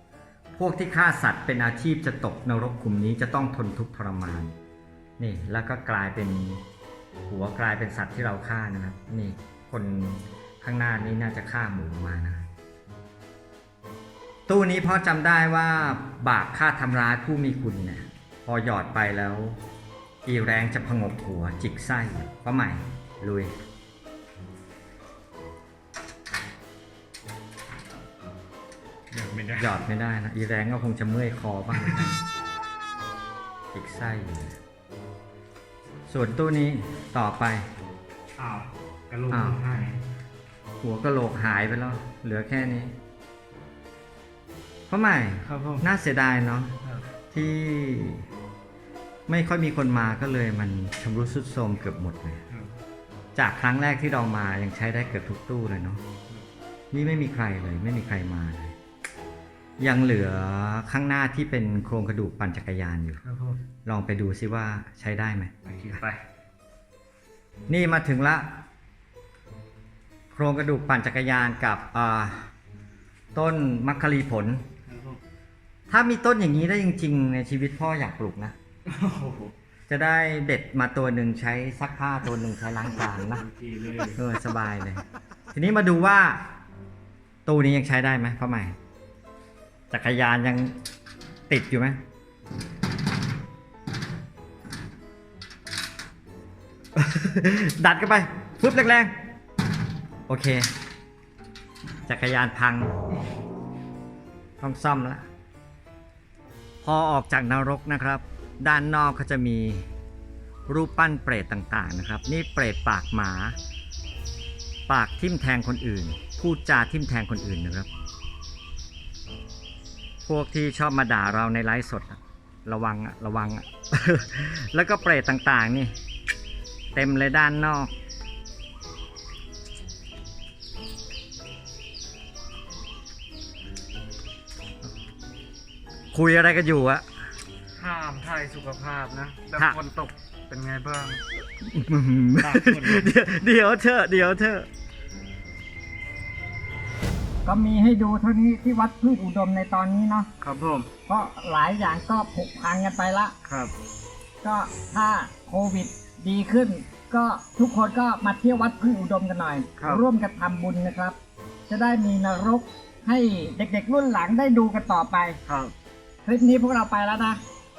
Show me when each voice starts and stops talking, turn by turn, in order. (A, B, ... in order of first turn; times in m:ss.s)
0:00.6-0:04.5 A
0:05.2-0:06.6 A
0:07.3-0:12.4 A
0:14.5-0:19.6 A
0:20.2-0:23.5 A
0:29.1-0:29.7 B
0:29.6-0:32.2 A
0:33.7-0:34.5 A
0:36.1-0:37.7 A
0:38.4-0:40.0 B
0:39.3-0:39.6 A
0:40.8-0:43.0 A
0:44.9-0:46.7 A
0:45.4-0:45.8 B
0:47.3-0:48.2 A
0:49.3-0:52.4 A
0:53.3-0:56.0 A
0:56.9-0:58.7 A
0:59.8-1:03.2 A
1:03.2-1:03.6 B
1:03.8-1:05.5 A
1:05.6-1:06.2 B
1:07.7-1:08.5 A
1:10.3-1:12.5 A
1:13.3-1:14.6 A
1:14.9-1:15.2 B
1:15.9-1:18.5 A
1:18.8-1:19.5 B
1:19.9-1:23.4 A
1:23.4-1:24.2 B
1:24.2-1:26.4 A
1:27.4-1:28.8 A
1:29.9-1:30.8 A
1:31.5-1:32.0 A
1:36.9-1:39.1 A
1:40.3-1:40.7 A
1:42.1-1:42.9 A
1:44.6-1:45.2 A
1:46.8-1:49.9 A
1:50.7-1:53.6 A
1:54.9-1:57.9 A
2:00.2-2:05.9 A
2:06.9-2:07.9 A
2:16.1-2:17.0 A
2:17.8-2:21.2 B
2:21.6-2:24.7 A
2:22.4-2:23.1 B
2:27.4-2:30.3 C
2:30.4-2:30.9 B
2:31.0-2:33.3 C
2:33.4-2:33.7 B
2:34.4-2:41.2 C
2:39.8-2:40.0 B
2:41.7-2:45.4 C
2:45.4-2:45.7 B
2:46.2-2:47.4 C